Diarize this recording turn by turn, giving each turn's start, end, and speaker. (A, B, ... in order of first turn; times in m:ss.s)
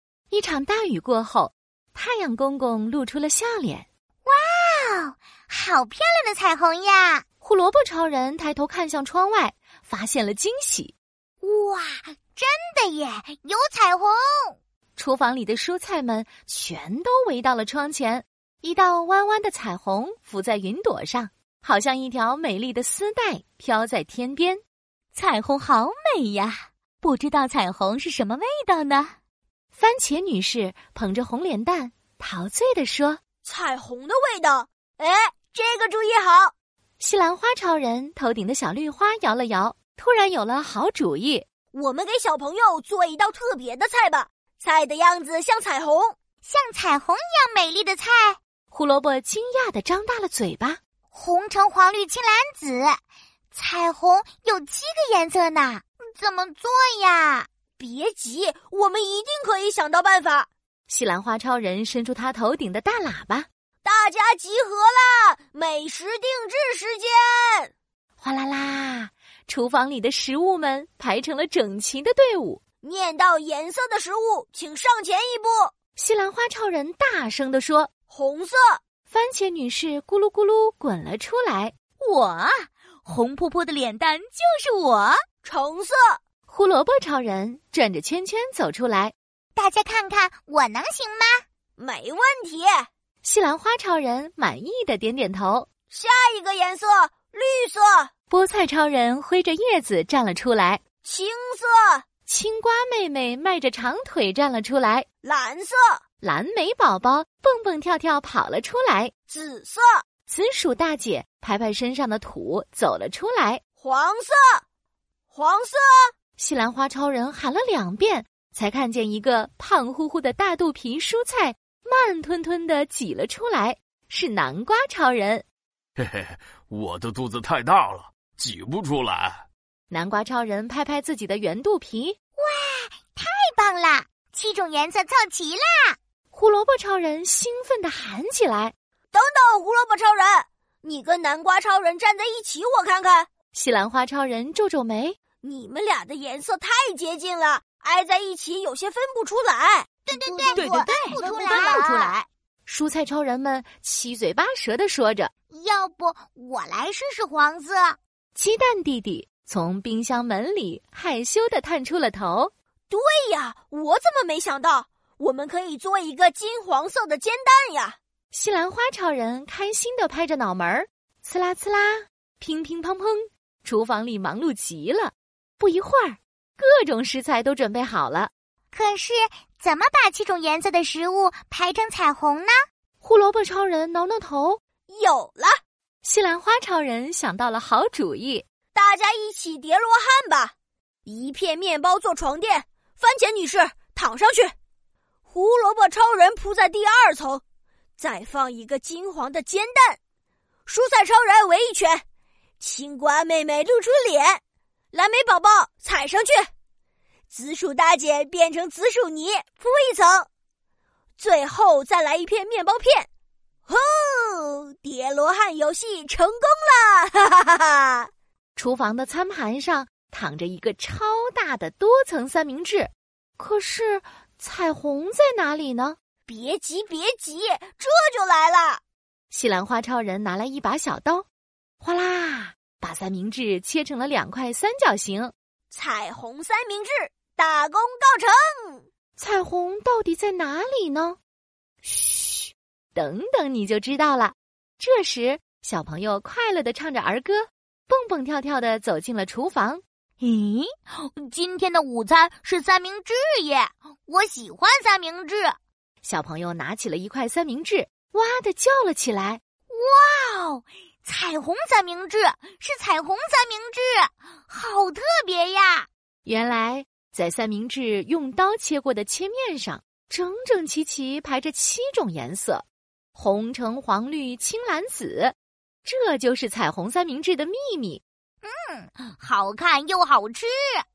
0:00.3-0:03.9 A
0:04.3-0:07.2 B
0:07.4-0:10.9 A
0:11.4-0:14.6 B
0:15.0-0:24.6 A
0:25.2-0:29.1 C
0:27.8-0:28.7 A
0:29.7-0:33.2 A
0:33.4-0:36.5 D
0:37.0-0:41.4 A
0:41.7-0:46.2 D
0:46.4-0:48.4 B
0:48.7-0:50.8 A
0:51.1-0:53.0 B
0:53.5-0:57.5 B
0:57.8-1:00.5 D
1:00.9-1:03.5 A
1:03.8-1:07.7 D
1:08.2-1:12.6 A
1:12.8-1:15.7 D
1:16.0-1:17.9 A
1:18.1-1:18.8 D
1:19.1-1:21.8 A
1:22.0-1:25.2 C
1:25.4-1:26.2 D
1:26.5-1:29.1 A
1:29.6-1:31.4 B
1:31.8-1:32.9 D
1:33.2-1:35.7 A
1:35.9-1:38.1 D
1:38.3-1:40.8 A
1:41.0-1:42.0 D
1:42.3-1:45.1 A
1:45.2-1:46.0 D
1:46.2-1:49.1 A
1:49.3-1:50.0 D
1:50.3-1:53.6 A
1:53.8-1:54.6 D
1:55.3-1:56.1 D
1:56.4-2:05.4 A
2:06.0-2:09.4 E
2:09.9-2:12.2 A
2:12.4-2:16.0 B
2:16.3-2:18.7 A
2:19.1-2:23.3 D
2:23.5-2:25.2 A
2:25.4-2:29.9 D
2:30.1-2:32.1 B
2:30.1-2:32.2 C
2:30.6-2:32.1 A
2:32.7-2:35.3 A
2:35.5-2:38.0 B
2:38.4-2:42.5 A
2:42.9-2:48.0 D
2:48.3-2:58.3 A
2:58.7-3:02.6 B
3:03.0-3:04.6 A
3:04.9-3:05.6 D
3:06.0-3:08.5 A
3:08.7-3:10.5 D
3:11.1-3:14.5 D
3:15.3-3:17.4 D
3:18.0-3:20.0 D
3:20.7-3:22.0 D
3:22.6-3:24.4 D
3:24.9-3:26.5 D
3:27.3-3:30.3 D
3:31.2-3:33.1 D
3:33.7-3:38.1 D
3:38.6-3:46.0 A
3:46.3-3:48.8 D
3:49.3-3:51.3 A
3:51.8-3:55.3 A
3:55.7-3:58.8 D
3:59.2-4:01.2 A
4:01.8-4:09.8 A
4:10.2-4:15.6 B
4:16.0-4:19.4 A
4:19.7-4:25.9 B
4:26.3-4:38.0 A
4:38.4-4:40.8 B